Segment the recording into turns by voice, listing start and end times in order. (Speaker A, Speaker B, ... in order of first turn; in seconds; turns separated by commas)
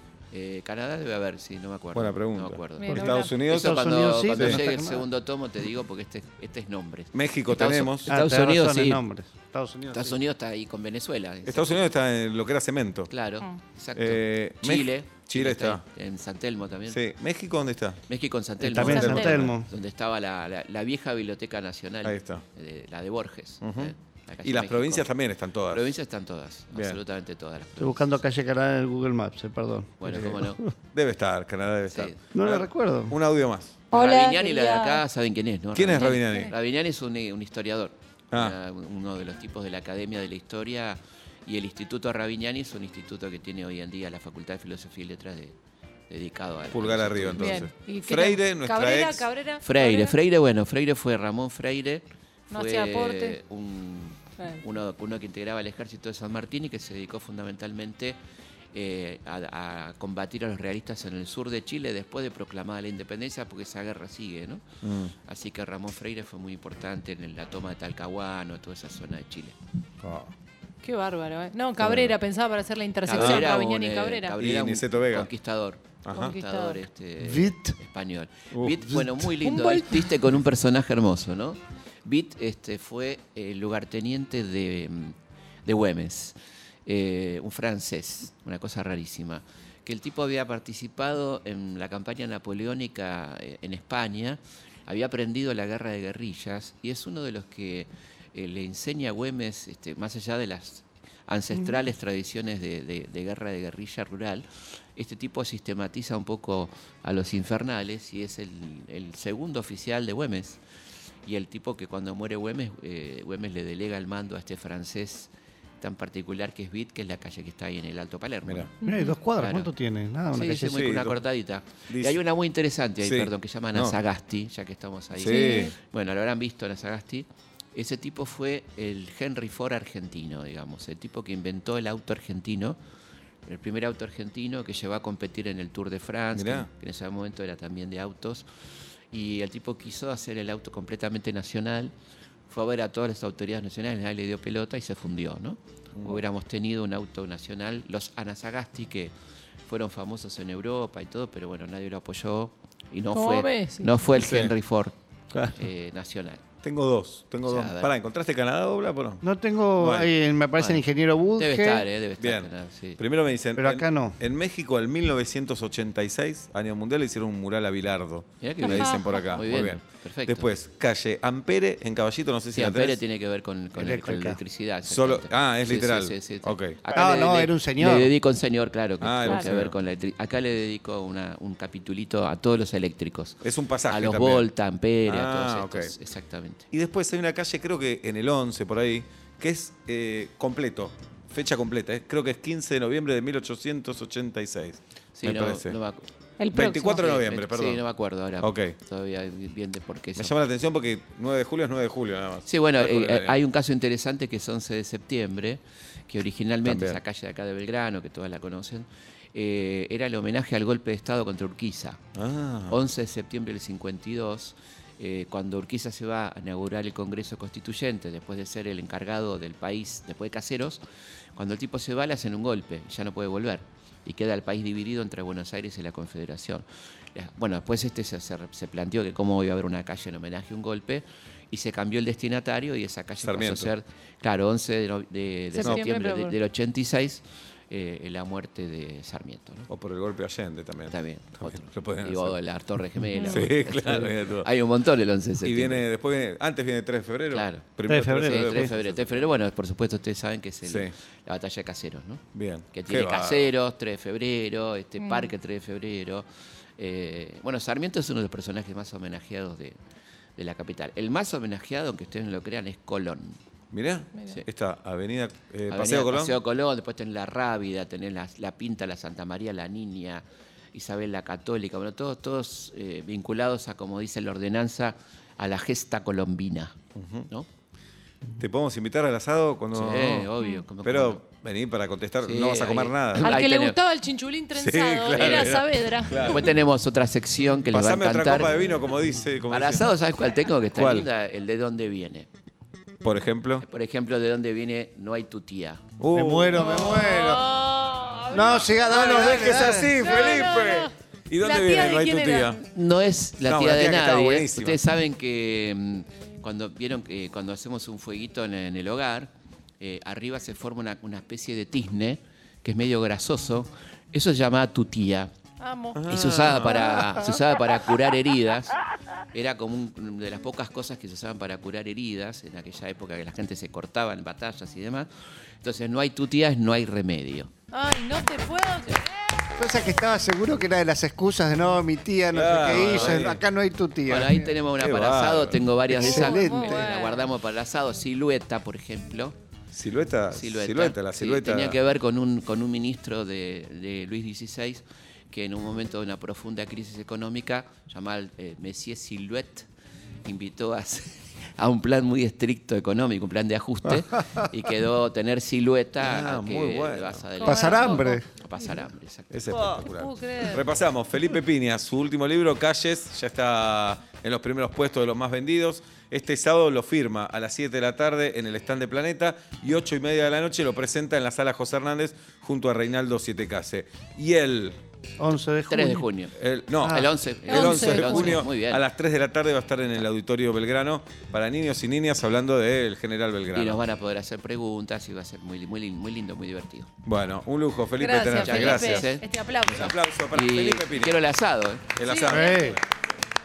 Speaker A: 0.3-9.0, Speaker B: 1.9-4.6, Speaker C: 2.8-3.3, Speaker D: 2.9-5.0, Speaker B: 7.1-8.1, Speaker D: 8.1-10.2, Speaker A: 9.9-11.8, Speaker B: 11.5-13.1, Speaker A: 13.1-17.0, Speaker B: 14.0-15.8, Speaker B: 16.9-18.0, Speaker A: 18.1-25.1, Speaker D: 18.6-19.7, Speaker C: 18.8-19.5, Speaker B: 18.9-19.6, Speaker B: 22.0-22.4, Speaker B: 23.6-25.9, Speaker A: 25.7-28.2, Speaker B: 26.7-27.0, Speaker D: 27.8-30.6, Speaker A: 30.0-30.6, Speaker B: 30.1-30.4, Speaker B: 30.9-33.8, Speaker A: 31.9-32.2, Speaker D: 32.3-33.2, Speaker C: 33.9-35.0, Speaker A: 33.9-45.6, Speaker B: 35.8-36.5, Speaker C: 36.0-36.5, Speaker B: 38.3-38.6, Speaker A: 46.1-47.6, Speaker B: 46.7-49.3, Speaker C: 47.4-50.2, Speaker A: 49.6-58.2, Speaker C: 52.5-53.4, Speaker A: 58.7-64.6, Speaker B: 64.8-65.1, Speaker A: 65.2-69.6, Speaker B: 70.0-70.3, Speaker C: 70.8-74.4, Speaker B: 71.8-72.1, Speaker A: 73.0-110.6, Speaker B: 73.1-73.5, Speaker B: 74.4-75.3, Speaker B: 76.0-76.3, Speaker C: 76.1-76.8, Speaker D: 77.2-77.8, Speaker B: 78.5-78.9, Speaker D: 78.9-79.3, Speaker C: 79.4-80.1, Speaker A: 111.2-118.8, Speaker C: 118.8-119.2, Speaker D: 118.8-121.0, Speaker A: 119.4-119.7, Speaker A: 120.3-132.8, Speaker B: 120.6-121.2, Speaker B: 121.9-122.2, Speaker B: 123.0-124.0, Speaker B: 125.2-125.7, Speaker C: 125.3-125.7, Speaker A: 133.4-138.5, Speaker B: 136.3-136.7, Speaker A: 139.1-141.9, Speaker A: 142.5-149.1, Speaker B: 146.0-146.2, Speaker A: 149.7-155.0, Speaker C: 153.1-153.9, Speaker B: 154.1-154.5, Speaker A: 155.5-156.4, Speaker B: 156.6-159.2, Speaker A: 157.4-157.9, Speaker D: 159.2-161.9, Speaker B: 159.8-160.1, Speaker A: 160.6-160.8, Speaker A: 161.3-163.0, Speaker B: 162.2-173.0, Speaker D: 163.6-164.2, Speaker A: 168.4-170.5, Speaker C: 168.7-169.3, Speaker A: 172.5-186.7, Speaker D: 173.8-174.4, Speaker B: 174.8-176.8, Speaker D: 176.9-178.1, Speaker B: 179.0-179.8, Speaker B: 183.4-184.5, Speaker B: 185.1-185.9, Speaker B: 186.7-195.8, Speaker A: 195.2-196.1, Speaker C: 196.4-197.0, Speaker B: 196.5-197.8, Speaker A: 196.8-200.3, Speaker B: 198.4-198.8, Speaker B: 200.2-203.4, Speaker A: 202.4-212.0, Speaker B: 206.7-207.0, Speaker B: 212.2-212.8, Speaker A: 212.7-220.8, Speaker A: 221.3-239.7, Speaker B: 233.2-233.7, Speaker C: 235.5-236.3, Speaker B: 239.7-242.3, Speaker A: 240.9-245.8, Speaker B: 243.3-244.5, Speaker B: 245.4-249.3, Speaker A: 247.3-256.3, Speaker D: 247.9-248.7, Speaker B: 250.7-250.9, Speaker B: 252.3-253.5, Speaker C: 255.0-255.3, Speaker A: 256.8-259.8, Speaker A: 260.4-263.4, Speaker B: 263.7-266.4, Speaker A: 265.7-276.8, Speaker B: 277.0-277.3, Speaker B: 278.4-280.3, Speaker A: 279.7-281.2, Speaker C: 280.4-280.6, Speaker B: 280.8-283.4, Speaker A: 282.2-283.8, Speaker C: 283.2-286.5, Speaker B: 284.6-286.6, Speaker A: 285.1-285.6, Speaker A: 286.2-288.7, Speaker B: 287.7-289.9, Speaker A: 289.5-292.3, Speaker B: 290.8-291.1, Speaker B: 293.0-293.6, Speaker A: 293.6-295.8, Speaker B: 296.0-296.9, Speaker D: 296.1-297.6, Speaker C: 296.5-302.6, Speaker D: 298.3-300.0, Speaker A: 298.4-298.7, Speaker B: 298.8-302.6, Speaker A: 302.6-315.3, Speaker B: 303.4-304.8, Speaker C: 315.6-317.4, Speaker B: 315.9-317.1, Speaker A: 316.1-318.8, Speaker A: 319.3-325.1, Speaker A: 325.6-327.5, Speaker C: 327.7-329.4, Speaker D: 329.6-334.5, Speaker B: 332.3-333.4, Speaker A: 332.7-333.3, Speaker A: 334.1-339.4, Speaker B: 334.7-336.2, Speaker D: 335.9-336.9, Speaker C: 336.0-337.3, Speaker B: 339.7-341.8, Speaker A: 340.3-349.7, Speaker A: 350.2-359.8, Speaker B: 356.0-357.2, Speaker C: 357.4-358.2, Speaker D: 357.4-358.3, Speaker B: 359.3-374.8, Speaker C: 359.7-360.7, Speaker D: 375.2-376.1, Speaker A: 375.7-378.8, Speaker B: 376.4-383.8, Speaker D: 376.8-377.1, Speaker C: 377.5-378.5, Speaker A: 383.5-386.9, Speaker B: 387.1-389.1, Speaker C: 388.0-389.9, Speaker A: 388.3-391.9, Speaker B: 389.7-391.1, Speaker B: 392.0-392.8, Speaker C: 392.0-392.6, Speaker D: 392.3-392.8